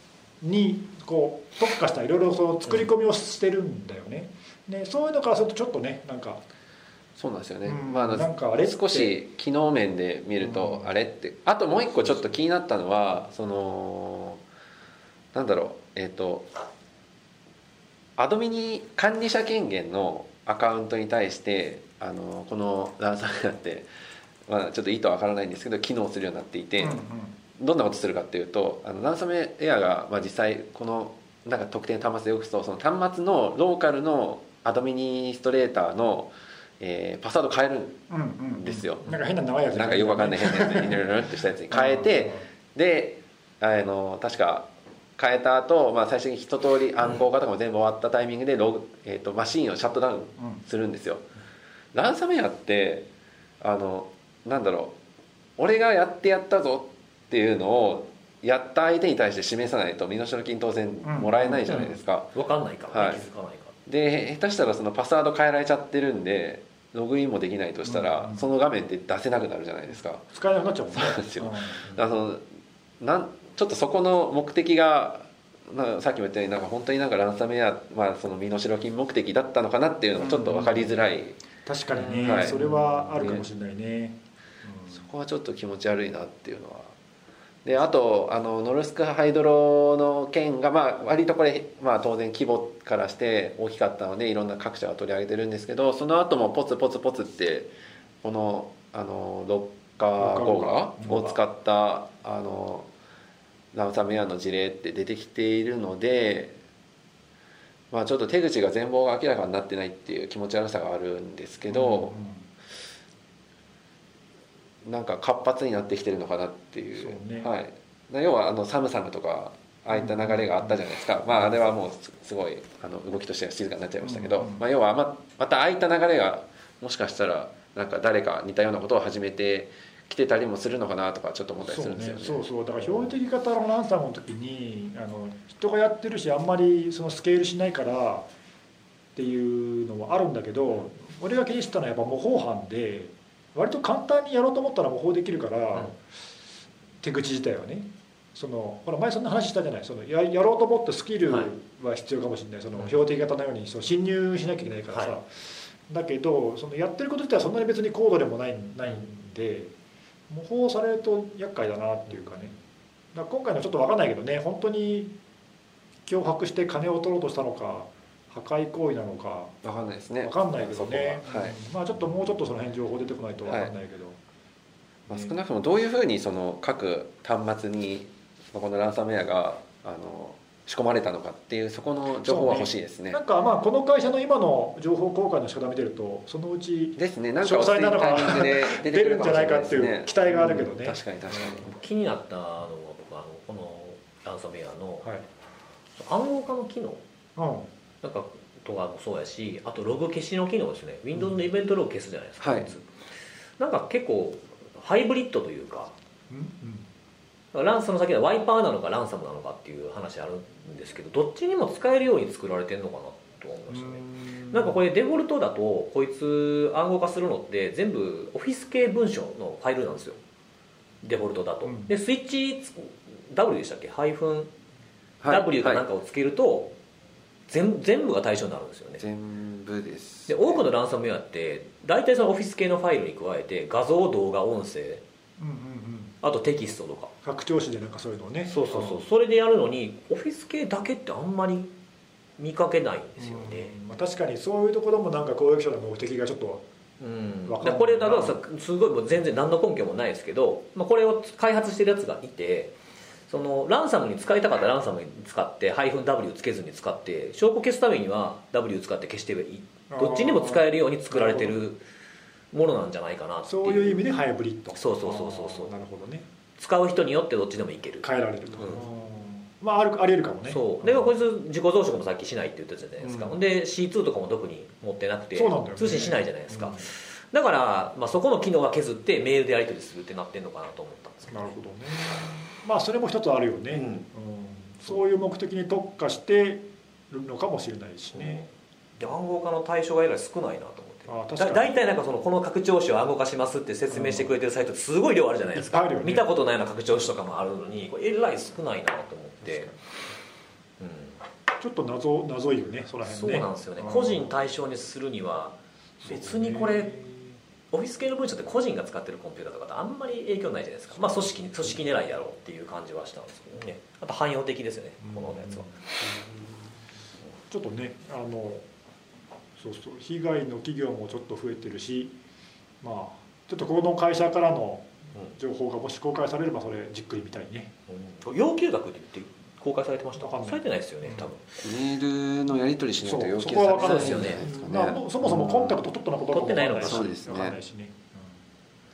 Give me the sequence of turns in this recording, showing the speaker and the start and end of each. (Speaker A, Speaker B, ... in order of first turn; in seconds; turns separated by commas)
Speaker A: 0.4-6.4, Speaker B: 7.2-14.4, Speaker A: 7.7-9.1, Speaker A: 10.4-10.9, Speaker B: 15.3-16.5, Speaker B: 18.2-23.9, Speaker B: 24.5-27.0, Speaker A: 26.8-27.3, Speaker B: 27.6-38.0, Speaker A: 38.1-41.0, Speaker B: 38.6-39.1, Speaker B: 39.7-51.2, Speaker A: 41.7-42.5, Speaker B: 51.9-53.1, Speaker B: 53.6-55.0, Speaker B: 55.6-62.3, Speaker A: 61.0-61.8, Speaker C: 61.7-63.7, Speaker B: 62.9-63.2, Speaker B: 63.9-70.2, Speaker A: 67.8-68.5, Speaker A: 70.3-71.8, Speaker B: 70.9-72.4, Speaker B: 73.0-81.4, Speaker A: 80.2-80.9, Speaker A: 81.7-85.0, Speaker C: 81.9-82.7, Speaker B: 82.2-83.5, Speaker B: 84.9-86.9, Speaker B: 87.7-97.7, Speaker B: 98.2-102.9, Speaker A: 100.2-101.4, Speaker B: 103.7-106.6, Speaker B: 107.9-112.2, Speaker A: 111.7-112.5, Speaker B: 114.8-133.2, Speaker A: 117.0-117.5, Speaker A: 119.9-120.8, Speaker A: 124.0-124.6, Speaker A: 131.7-138.3, Speaker A: 139.2-146.0, Speaker A: 147.0-159.7, Speaker A: 160.3-162.6, Speaker A: 163.1-165.2, Speaker A: 166.1-169.6, Speaker B: 169.6-171.6, Speaker A: 170.2-174.2, Speaker B: 175.1-183.2, Speaker A: 175.1-175.3, Speaker A: 182.2-191.6, Speaker B: 187.0-191.8, Speaker C: 191.7-195.1, Speaker C: 196.0-197.0, Speaker A: 197.4-197.7, Speaker C: 198.0-202.9, Speaker B: 202.4-202.7, Speaker C: 203.6-205.9, Speaker A: 206.3-206.9, Speaker C: 207.5-220.2, Speaker A: 213.7-214.8, Speaker C: 221.0-224.5, Speaker A: 221.6-221.9, Speaker B: 225.2-225.8, Speaker C: 225.3-226.7, Speaker C: 227.5-229.0, Speaker B: 229.0-230.7, Speaker C: 230.3-235.0, Speaker A: 235.4-236.2, Speaker C: 236.2-237.1, Speaker A: 237.2-239.0, Speaker C: 238.5-241.7, Speaker C: 242.4-243.8, Speaker A: 243.2-246.6, Speaker C: 247.0-252.7, Speaker A: 247.5-248.4, Speaker C: 253.3-261.8, Speaker A: 259.9-261.6, Speaker C: 262.5-264.0, Speaker A: 263.5-266.3, Speaker C: 264.7-265.7, Speaker C: 266.6-268.1, Speaker A: 268.0-271.2, Speaker C: 268.6-268.9, Speaker C: 270.5-281.5, Speaker A: 273.0-273.4, Speaker A: 275.3-276.9, Speaker A: 281.3-288.5, Speaker C: 283.7-284.1, Speaker C: 288.1-288.4, Speaker C: 289.0-299.7, Speaker A: 291.1-291.7, Speaker A: 293.9-294.3, Speaker A: 295.6-296.3, Speaker A: 299.4-299.8, Speaker C: 300.8-301.2, Speaker A: 301.6-304.3, Speaker C: 303.1-306.9, Speaker A: 306.0-307.3, Speaker C: 307.7-315.8, Speaker A: 311.0-311.3, Speaker A: 315.0-315.9, Speaker A: 317.5-318.6, Speaker A: 319.6-322.1, Speaker A: 322.8-327.7, Speaker C: 327.9-331.6, Speaker A: 330.2-331.3, Speaker B: 331.6-335.8, Speaker A: 333.0-338.4, Speaker C: 333.7-334.4, Speaker C: 336.3-337.1, Speaker B: 336.8-337.6